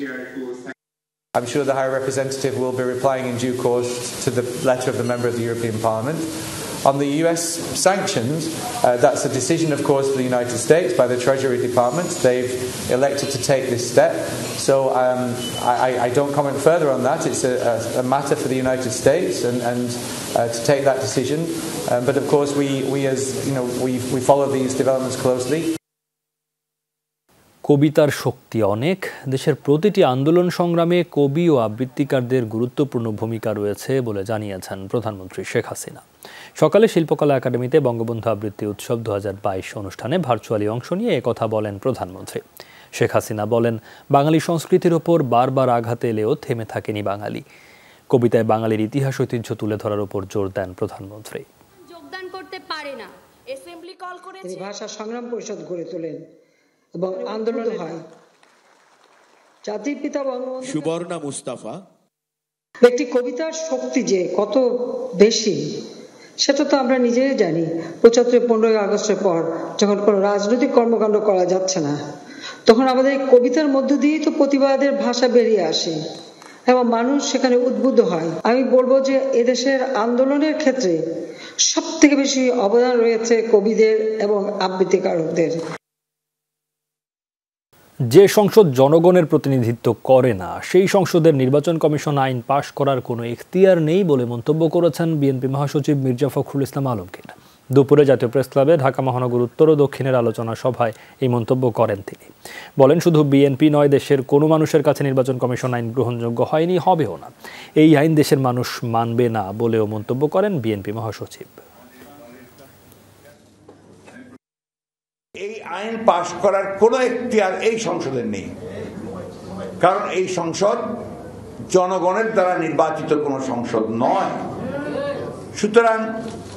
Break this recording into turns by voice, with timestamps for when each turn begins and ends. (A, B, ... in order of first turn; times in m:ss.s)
0:01.4-0:25.7 A
0:27.6-0:36.0 B
0:36.6-0:42.4 B
0:43.0-0:47.4 B
0:48.1-0:51.5 B
0:51.9-0:54.7 C
0:54.4-0:56.2 D
0:57.0-0:58.0 D
0:59.7-1:01.1 D
1:02.8-1:05.6 D
1:06.4-1:12.0 D
1:12.7-1:16.0 D
1:16.7-1:21.0 D
1:21.7-1:25.6 D
1:28.1-1:51.6 B
1:55.4-1:58.5 E
1:59.8-2:00.9 E
2:01.7-2:04.4 E
2:05.6-2:06.1 E